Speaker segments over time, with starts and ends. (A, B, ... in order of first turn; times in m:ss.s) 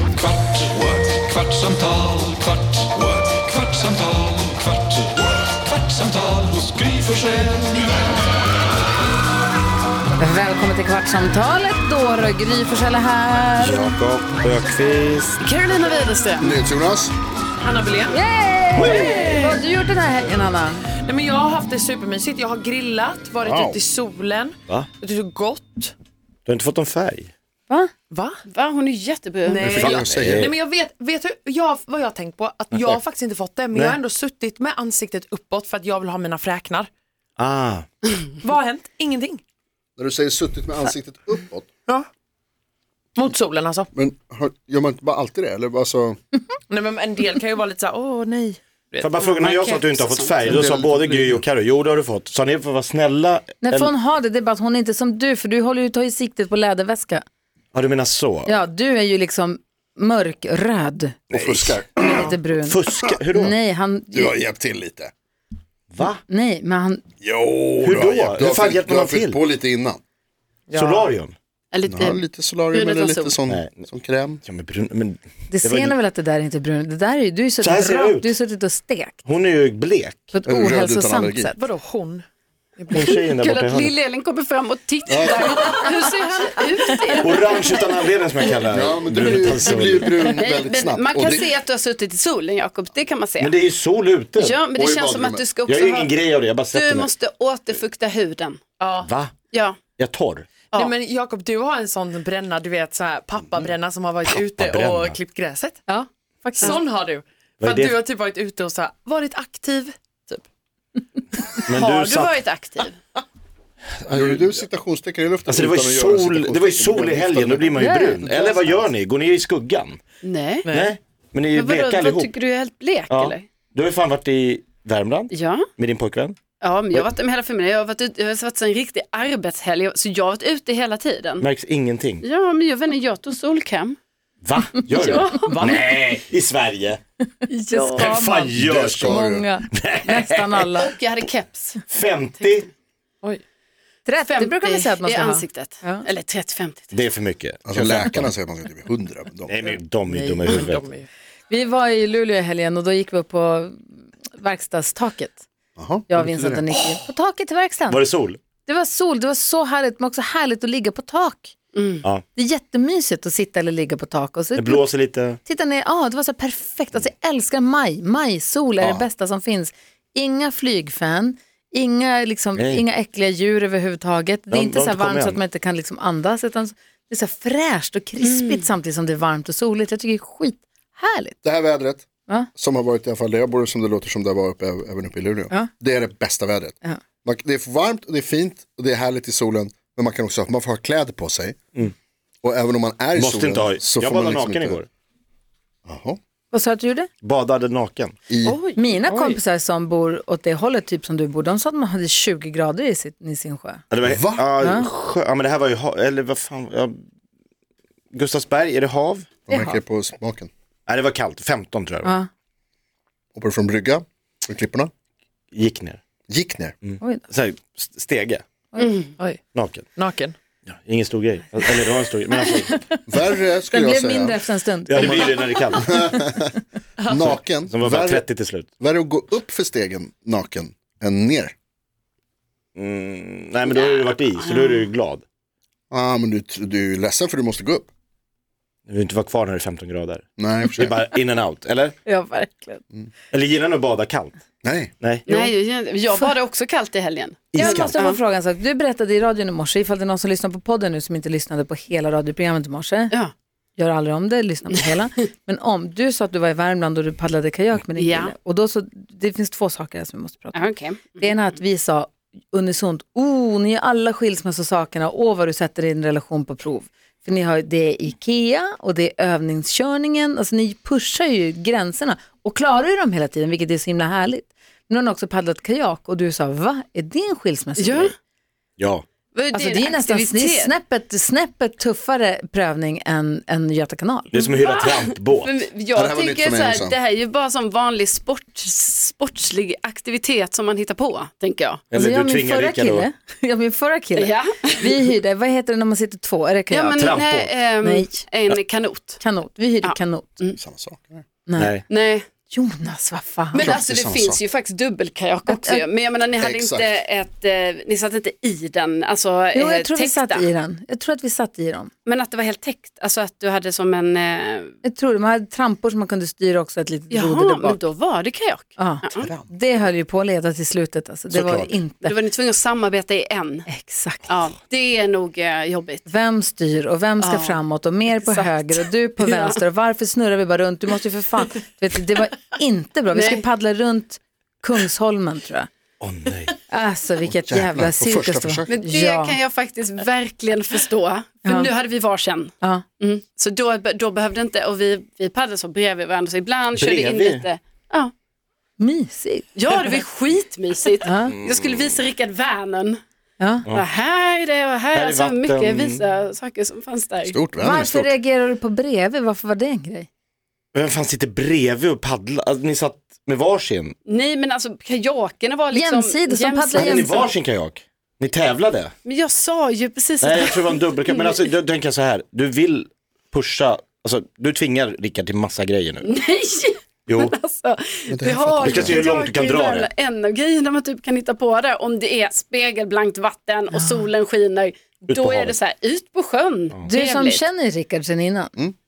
0:00.2-0:05.1 A
0:05.7-0:07.7 A
0:10.2-0:13.9 B
0:13.6-0:15.4 C
0:15.4-0:16.5 D
0:16.4-0:17.1 E
0:17.6-0:18.2 F
0:18.1-0:20.9 B
0:18.8-0:19.5 C
0:19.1-0:19.6 F
0:21.0-0:25.9 F
0:23.4-0:23.8 E
0:26.4-0:27.3 C
0:28.1-0:28.4 F
0:28.5-0:29.7 D
0:29.4-0:36.9 F
0:29.6-0:30.5 E
0:29.6-0:30.5 C
0:37.4-0:37.9 C
0:38.3-0:39.4 F
0:40.0-0:41.7 E
0:43.2-0:43.9 F
0:43.9-0:46.2 E
0:46.7-0:49.4 F
0:49.0-0:53.9 C
0:49.4-0:50.4 D
0:50.5-0:51.4 E
0:53.6-0:57.2 B
0:57.7-0:58.6 C
0:58.4-1:01.2 B
1:01.3-1:01.8 C
1:01.3-1:02.3 E
1:02.0-1:04.4 B
1:02.6-1:03.6 C
1:04.1-1:05.1 E
1:05.9-1:06.2 C
1:06.3-1:07.0 B
1:07.2-1:10.0 E
1:07.8-1:09.4 C
1:10.7-1:11.1 F
1:10.7-1:11.3 C
1:11.7-1:12.2 D
1:11.9-1:14.4 E
1:12.7-1:13.4 D
1:13.5-1:13.8 C
1:14.4-1:16.0 C
1:15.5-1:19.2 B
1:17.6-1:18.3 C
1:19.2-1:20.3 C
1:20.3-1:21.6 B
1:20.5-1:21.5 E
1:21.6-1:22.2 F
1:22.8-1:23.1 F
1:22.9-1:23.9 C
1:22.9-1:28.5 D
1:25.1-1:25.5 E
1:27.2-1:30.2 C
1:28.7-1:31.5 E
1:30.2-1:33.6 D
1:33.4-1:34.6 C
1:34.4-1:38.6 D
1:34.7-1:35.4 E
1:35.7-1:37.1 C
1:38.8-1:39.1 F
1:39.0-1:39.3 C
1:39.5-1:39.8 D
1:39.9-1:40.5 C
1:40.7-1:45.8 F
1:44.3-1:45.2 C
1:45.9-1:46.8 B
1:46.6-1:50.4 F
1:47.6-1:48.0 C
1:51.7-1:52.4 C
1:51.7-1:53.0 D
1:54.1-1:58.8 E
1:54.1-1:54.4 C
1:55.5-2:00.0 C
1:57.7-1:58.2 B
2:00.2-2:00.7 D
2:00.6-2:00.9 F
2:00.7-2:02.3 C
2:01.5-2:03.5 D
2:03.1-2:06.4 C
2:05.3-2:05.7 D
2:06.6-2:11.5 D
2:11.4-2:12.2 C
2:12.2-2:14.0 D
2:14.4-2:17.0 C
2:14.8-2:15.5 D
2:15.4-2:15.8 F
2:17.5-2:18.2 D
2:17.6-2:18.5 B
2:18.0-2:19.2 C
2:18.5-2:19.5 E
2:19.0-2:20.9 B
2:19.7-2:20.9 C
2:20.8-2:21.8 D
2:21.9-2:22.7 C
2:24.0-2:26.0 B
2:24.2-2:26.9 D
2:26.9-2:28.3 C
2:27.6-2:29.5 E
2:29.5-2:30.8 C
2:30.1-2:30.6 B
2:30.4-2:31.1 F
2:31.5-2:33.8 B
2:34.4-2:35.4 B
2:35.8-2:36.7 E
2:36.1-2:38.0 B
2:37.9-2:38.4 C
2:38.6-2:41.6 B
2:41.7-2:42.0 D
2:42.3-2:44.9 B
2:44.6-2:45.4 C
2:45.4-3:01.4 B
2:48.8-2:49.0 E
2:52.6-2:52.8 C
2:54.5-2:55.4 C
2:58.2-2:58.6 D
3:01.4-3:11.6 E
3:12.4-3:14.8 E
3:13.2-3:14.9 C
3:15.8-3:16.2 E
3:16.5-3:17.1 B
3:17.2-3:18.2 C
3:18.3-3:18.6 E
3:18.4-3:19.3 F
3:18.8-3:23.8 B
3:23.9-3:26.9 C
3:24.0-3:24.5 E
3:24.6-3:24.9 B
3:28.1-3:29.3 C
3:29.5-3:30.5 E
3:29.5-3:29.8 B
3:30.9-3:32.1 C
3:32.0-3:32.3 B
3:33.3-3:34.9 E
3:35.5-3:36.0 C
3:36.3-3:36.7 E
3:36.8-3:38.4 C
3:37.0-3:37.2 B
3:38.7-3:39.0 B
3:38.8-3:39.1 D
3:39.2-3:39.4 F
3:39.5-3:39.8 C
3:40.0-3:40.4 F
3:40.7-3:42.8 C
3:42.4-3:43.0 B
3:43.1-3:46.5 E
3:43.7-3:45.4 B
3:44.9-3:46.2 C
3:47.0-3:47.3 F
3:47.1-3:48.3 E
3:47.1-3:48.7 C
3:48.8-3:51.5 E
3:52.8-3:55.2 C
3:53.6-3:54.9 D
3:55.9-3:57.9 E
3:58.9-4:01.9 C
4:00.4-4:00.9 E
4:02.0-4:02.8 B
4:03.3-4:04.3 C
4:04.6-4:04.9 E
4:05.0-4:05.5 C
4:05.3-4:08.2 D
4:07.5-4:07.9 C
4:07.6-4:13.1 B
4:13.8-4:38.1 B
4:17.9-4:18.3 D
4:20.5-4:21.3 D
4:37.8-4:38.1 D
4:38.8-4:39.0 C
4:39.3-4:40.7 D
4:39.5-4:44.3 B
4:44.3-4:45.5 C
4:44.3-4:51.9 D
4:46.0-4:46.9 E
4:51.9-4:53.1 C
4:51.9-4:57.0 B
4:54.2-4:54.8 D
4:56.7-4:59.2 D
4:57.0-4:57.5 C
4:57.8-4:58.2 B
4:59.2-5:00.3 B
4:59.8-5:00.6 D
5:00.6-5:01.2 E
5:01.5-5:01.7 B
5:01.6-5:01.8 C
5:01.9-5:02.2 D
5:02.5-5:03.7 B
5:03.5-5:10.4 D
5:03.6-5:04.4 E
5:05.5-5:05.8 B
5:06.4-5:06.9 E
5:09.5-5:11.9 B
5:12.0-5:14.7 D
5:14.8-5:17.8 B
5:17.1-5:19.3 D
5:18.8-5:22.2 B
5:19.2-5:19.5 E
5:21.3-5:21.7 C
5:22.0-5:23.7 D
5:23.7-5:24.3 B
5:24.3-5:26.0 D
5:26.0-5:35.7 B
5:27.2-5:27.6 D
5:28.1-5:29.6 D
5:33.1-5:33.4 D
5:36.0-5:36.6 C
5:36.7-5:39.4 B
5:37.2-5:38.7 E
5:38.7-5:48.1 D
5:46.7-5:47.4 C
5:48.8-5:49.5 B
5:49.6-5:53.0 D
5:51.0-5:51.3 B
5:53.4-5:53.6 B
5:53.7-5:57.3 D
5:54.9-5:56.0 C
5:57.2-5:58.2 E
5:57.6-6:00.1 B
6:00.7-6:03.9 C
6:04.0-6:07.3 D
6:05.7-6:07.2 B
6:06.8-6:08.9 C
6:09.0-6:11.4 D
6:10.2-6:16.0 C
6:16.0-6:27.4 D
6:17.1-6:17.3 C
6:18.1-6:19.1 E
6:18.6-6:19.9 C
6:23.7-6:24.0 B
6:25.1-6:25.5 C
6:26.9-6:28.5 B